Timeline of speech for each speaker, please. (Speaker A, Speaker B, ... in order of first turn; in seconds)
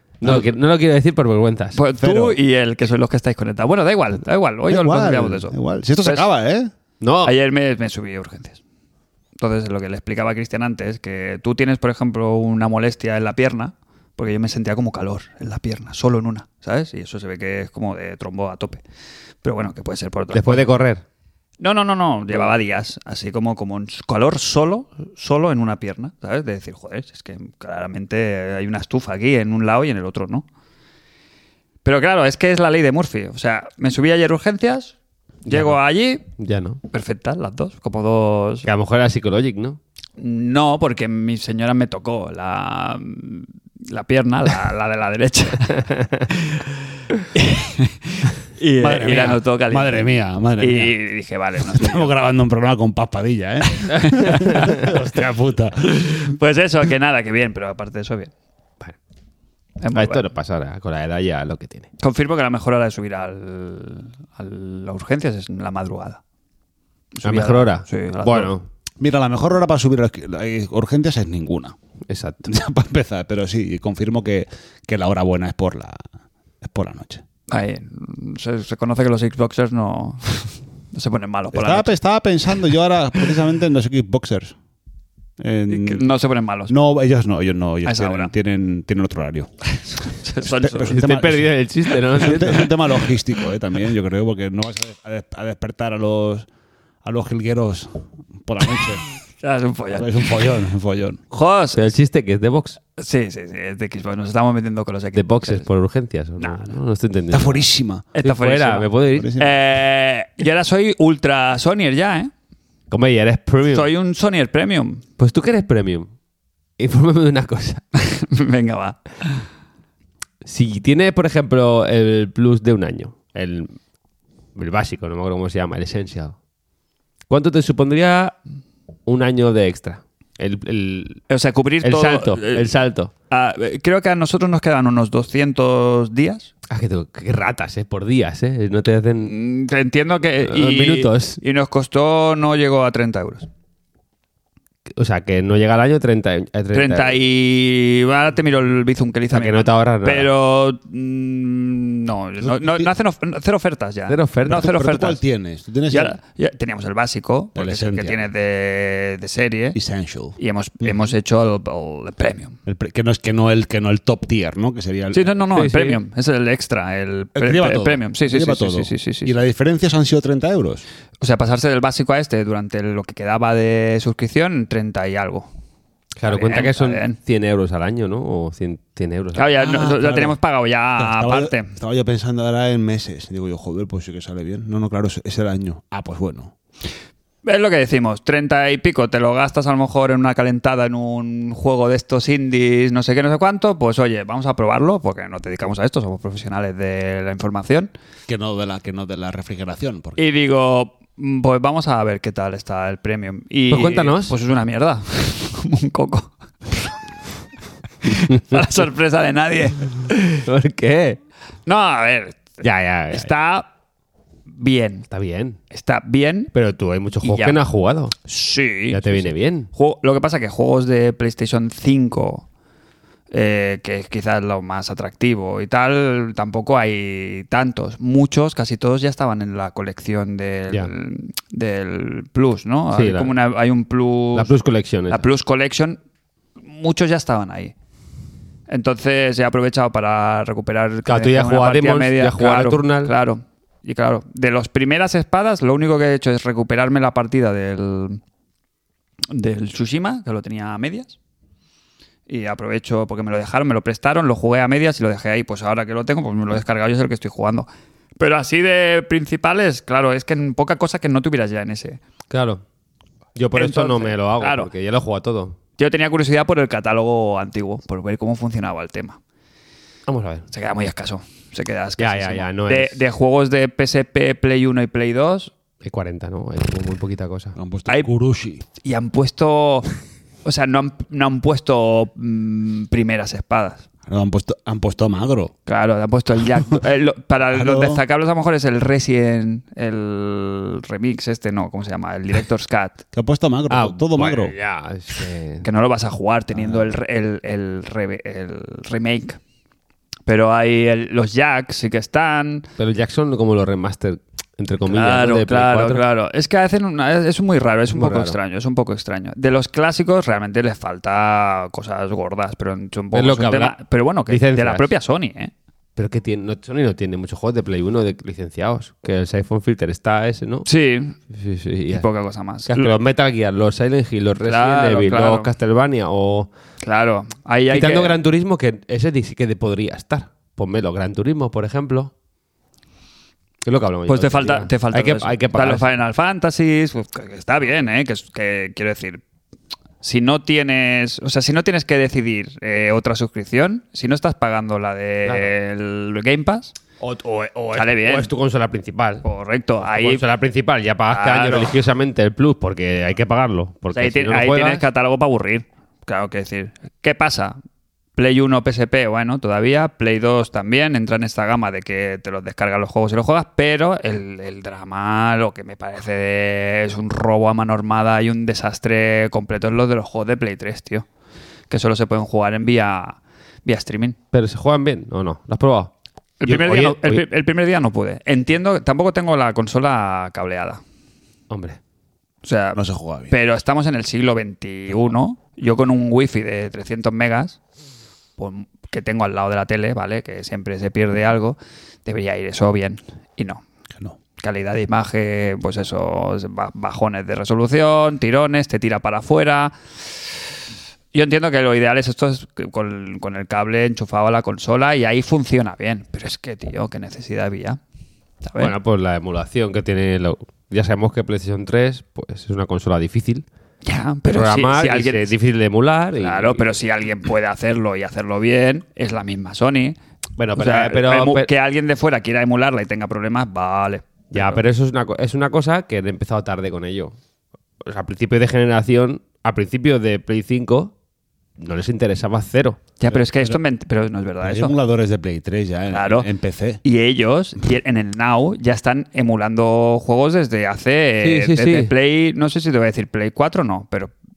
Speaker A: 0.2-1.8, 7.0-7.3, 20.3-21.0, 36.4-36.8, 38.6-39.8, 59.9-61.9, 67.2-68.6, 72.1-72.5, 90.9-92.7, 101.8-102.8, 105.1-107.7, 108.2-109.4, 112.9-113.9, 115.2-116.1, 116.8-117.8, 120.4-123.7, 124.5-126.4, 127.3-128.3, 129.1-131.2, 131.8-133.1, 136.7-139.3, 140.5-141.4, 144.9-147.2, 149.3-150.3, 154.1-154.7, 165.5-166.0, 176.2-179.6, 203.7-204.3, 210.3-211.2, 212.6-213.3, 215.1-215.6, 216.5-218.2, 218.9-219.7, 232.9-233.3, 234.3-235.2, 241.1-243.1, 262.3-262.6, 263.4-265.6, 270.1-270.5, 272.0-273.0, 275.8-277.6, 293.7-295.7, 302.8-306.0, 307.9-308.4, 313.1-313.8, 314.3-314.9, 316.0-320.7, 321.3-322.1, 322.7-326.5, 327.7-332.1, 333.6-335.9, 345.3-345.5, 347.0-349.3, 349.8-354.9, 374.3-375.9, 376.4-377.2, 381.5-381.8, 408.6-413.5, 414.3-416.8, 420.4-421.5, 424.3-427.2, 427.8-430.9, 431.6-432.8, 441.2-441.9
Speaker B: 0.2-0.5, 2.0-2.4, 4.7-6.7, 48.8-50.9, 51.6-56.1, 69.0-71.8, 72.5-76.0, 76.6-77.2, 81.5-84.6, 85.4-86.1, 86.7-89.5, 90.4-91.5, 92.1-96.5, 97.0-99.0, 99.9-101.2, 107.3-108.1, 109.1-109.5, 152.4-152.9, 154.5-156.2, 157.6-158.3, 159.7-161.1, 162.7-165.4, 167.3-170.8, 179.6-180.4, 181.0-186.5, 198.3-200.2, 277.6-278.6, 284.1-285.5, 287.5-288.0, 293.1-294.5, 296.5-296.8, 382.8-383.4, 433.1-433.6, 434.4-436.8
Speaker C: 1.8-6.2, 7.2-8.6, 9.4-18.8, 19.4-20.7, 21.6-30.5, 31.8-35.0, 35.5-36.3, 36.9-38.7, 40.2-46.6, 47.3-52.1, 53.9-54.9, 55.9-58.3, 59.8-60.3, 62.0-66.2, 67.1-68.6, 77.5-81.9, 85.7-86.8, 87.8-88.3, 89.7-91.0, 92.2-92.7, 99.4-100.3, 101.3-101.9, 103.0-105.7, 106.4-106.8, 108.2-112.3, 113.7-115.0, 118.0-119.4, 131.3-136.5, 139.2-143.5, 146.7-155.2, 155.9-159.8, 160.4-162.6, 165.1-169.3, 171.2-175.5, 176.3-177.2, 179.3-181.7, 187.4-197.9, 200.2-206.9, 208.0-210.2, 211.7-212.6, 213.1-213.7, 214.6-215.1, 215.7-216.5, 217.2-217.6, 218.2-222.4, 223.3-234.6, 235.1-236.0, 236.7-237.7, 238.7-248.2, 249.3-251.2, 252.3-257.7, 258.2-262.0, 263.6-264.7, 265.8-269.2, 270.5-275.5, 278.8-279.9, 280.4-283.9, 285.7-293.0, 295.6-299.4, 300.3-302.7, 304.9-315.5, 320.7-321.2, 321.9-322.9, 324.4-325.5, 326.8-328.2, 334.1-339.2, 340.0-346.8, 347.7-348.3, 349.2-350.2, 351.1-351.8, 353.9-357.6, 358.2-371.1, 371.7-374.2, 376.4-380.8, 382.4-382.8, 383.3-387.6, 388.4-393.6, 394.4-399.8, 401.1-407.8, 408.4-408.7, 413.8-415.3, 416.2-420.0, 420.6-424.6, 433.0-434.8, 435.9-436.3, 436.8-444.1